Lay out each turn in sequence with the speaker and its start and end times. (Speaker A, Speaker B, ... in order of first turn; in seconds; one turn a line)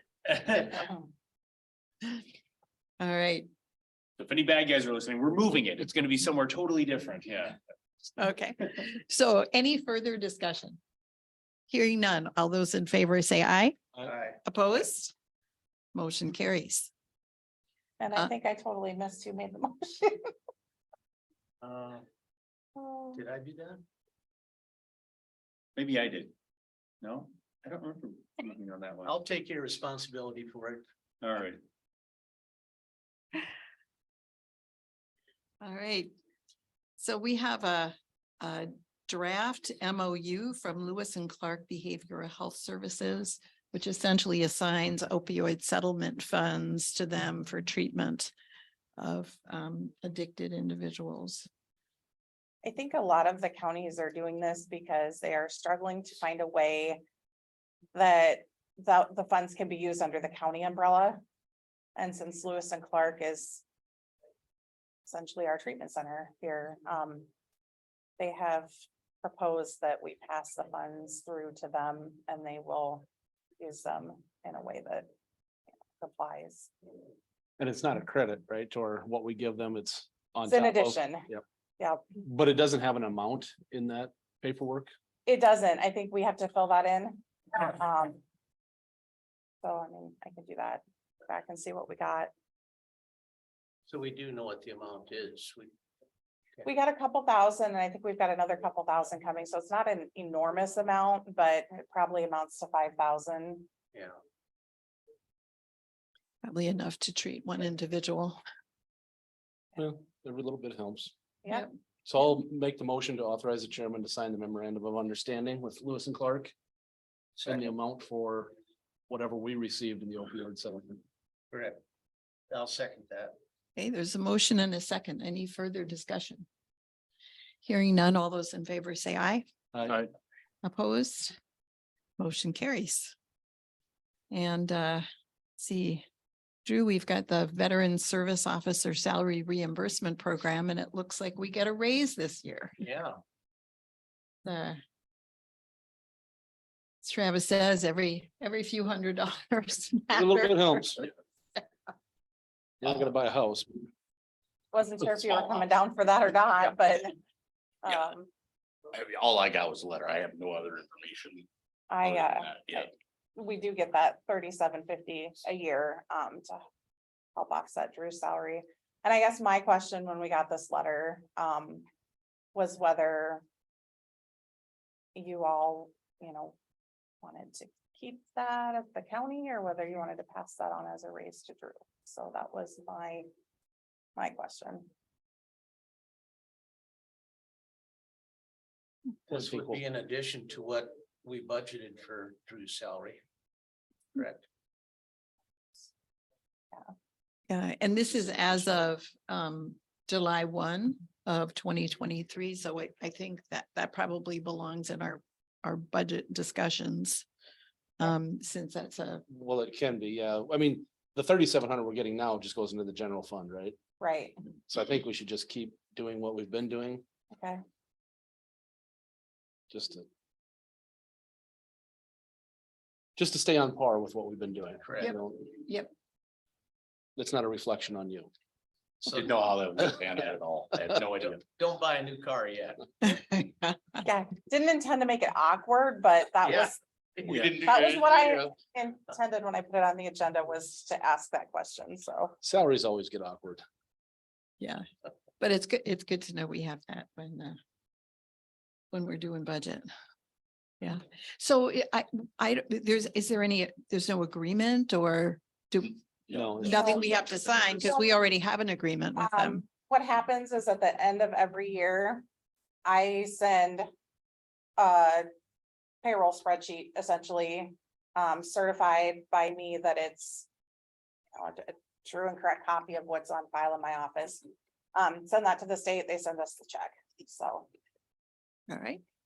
Speaker A: 0.3-0.8
Speaker B: 3.0-3.5
Speaker A: 4.2-7.6
Speaker B: 8.2-10.8
Speaker B: 11.7-13.8
Speaker C: 14.0-14.4
Speaker B: 14.4-15.1
Speaker B: 15.9-16.9
Speaker D: 18.0-20.3
Speaker C: 21.6-22.0
Speaker D: 22.8-23.2
Speaker C: 23.1-23.8
Speaker A: 25.8-26.3
Speaker A: 27.0-29.2
Speaker C: 29.1-30.8
Speaker A: 31.2-31.6
Speaker B: 35.6-36.1
Speaker B: 37.0-48.3
Speaker B: 49.0-51.5
Speaker D: 52.6-57.0
Speaker D: 57.9-61.2
Speaker D: 62.0-63.6
Speaker D: 65.1-67.3
Speaker D: 68.2-68.7
Speaker D: 69.2-73.0
Speaker D: 73.6-75.1
Speaker D: 76.0-76.7
Speaker E: 77.6-81.4
Speaker D: 80.5-81.3
Speaker E: 82.2-84.9
Speaker D: 85.3-88.2
Speaker D: 89.6-92.3
Speaker C: 93.9-95.7
Speaker D: 96.6-103.7
Speaker B: 106.4-108.4
Speaker E: 109.8-111.1
Speaker D: 111.4-111.7
Speaker E: 112.1-116.5
Speaker C: 117.4-117.7
Speaker E: 117.4-118.5
Speaker E: 119.1-121.0
Speaker C: 121.5-121.8
Speaker C: 122.5-123.3
Speaker B: 123.8-126.5
Speaker B: 127.6-129.4
Speaker B: 130.6-131.3
Speaker B: 132.2-133.2
Speaker B: 134.3-135.1
Speaker B: 135.6-136.1
Speaker B: 136.7-142.8
Speaker C: 142.8-143.1
Speaker B: 144.4-144.8
Speaker B: 147.0-151.1
Speaker E: 150.1-151.1
Speaker E: 152.8-153.9
Speaker D: 154.7-157.1
Speaker D: 157.8-158.3
Speaker F: 158.9-161.5
Speaker D: 161.9-166.6
Speaker F: 162.0-162.9
Speaker D: 167.4-171.8
Speaker D: 172.6-173.4
Speaker D: 175.2-176.6
Speaker D: 177.2-183.3
Speaker D: 184.2-184.9
Speaker E: 189.3-189.8
Speaker C: 189.3-193.2
Speaker C: 194.2-194.4
Speaker B: 197.5-207.3
Speaker B: 208.0-209.2
Speaker E: 209.3-213.8
Speaker D: 214.0-214.3
Speaker E: 214.7-217.0
Speaker D: 217.3-217.6
Speaker E: 219.7-220.1
Speaker E: 223.2-225.5
Speaker C: 224.8-225.1
Speaker B: 225.0-225.9
Speaker E: 227.2-228.3
Speaker F: 229.0-231.4
Speaker C: 231.0-232.8
Speaker B: 233.0-234.0
Speaker D: 234.0-236.8
Speaker C: 236.4-237.8
Speaker F: 237.3-238.4
Speaker D: 237.6-242.3
Speaker E: 242.4-243.6
Speaker B: 245.4-247.6
Speaker B: 248.9-249.9
Speaker B: 250.8-256.0
Speaker E: 256.3-256.9
Speaker B: 256.6-259.6
Speaker D: 256.6-257.1
Speaker D: 257.6-258.1
Speaker D: 259.2-262.2
Speaker D: 262.9-263.9
Speaker D: 264.8-265.2
Speaker D: 266.0-270.5
Speaker D: 271.3-274.4
Speaker D: 274.9-277.7
Speaker B: 278.7-279.0